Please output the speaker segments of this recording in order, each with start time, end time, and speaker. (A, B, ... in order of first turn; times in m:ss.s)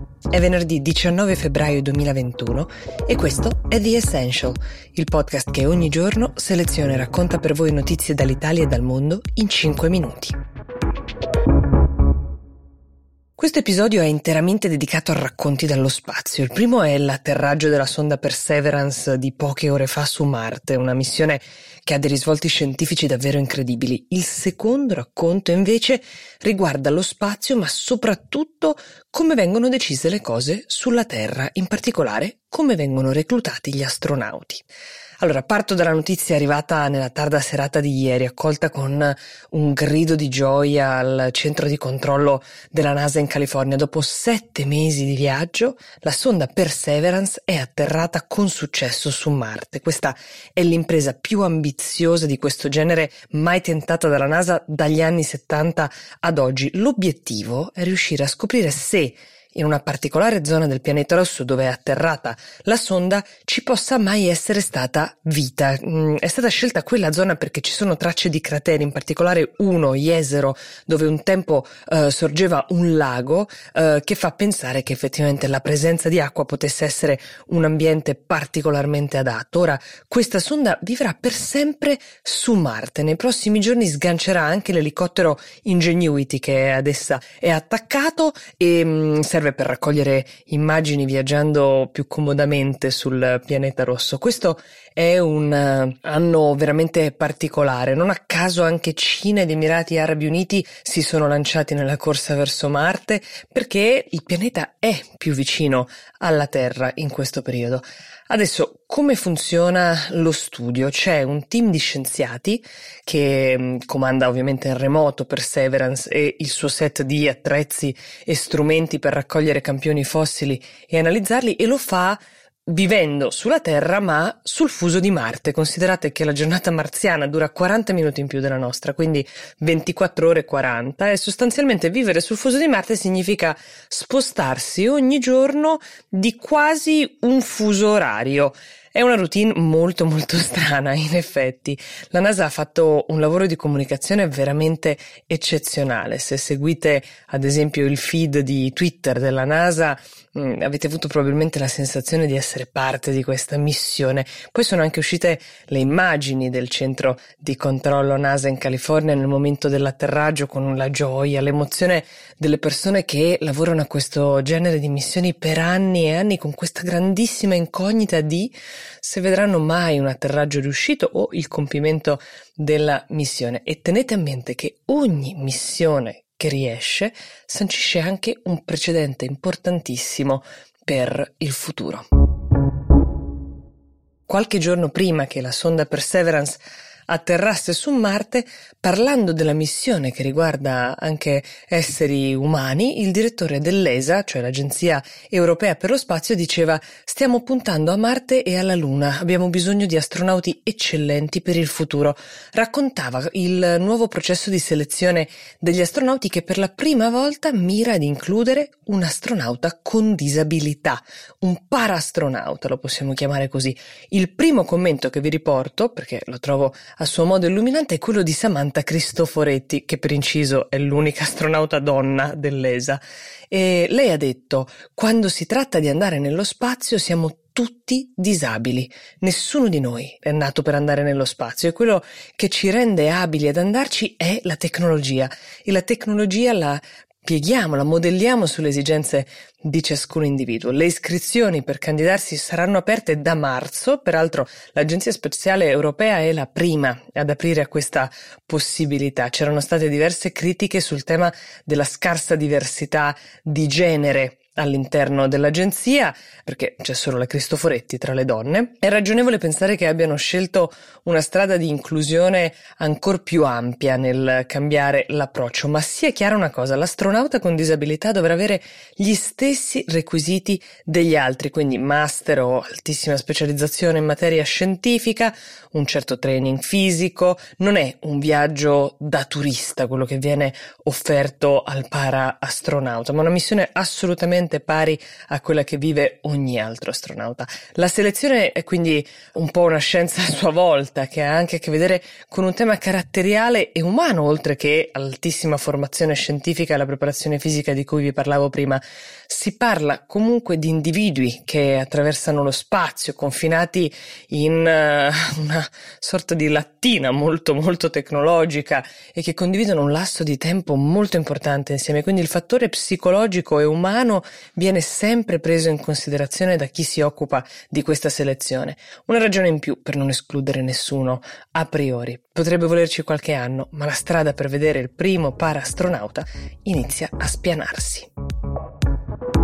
0:00.3-0:10.4 A
0:13.4-0:34.6 A
0:35.2-3:02.0 A
3:04.3-5:28.1 A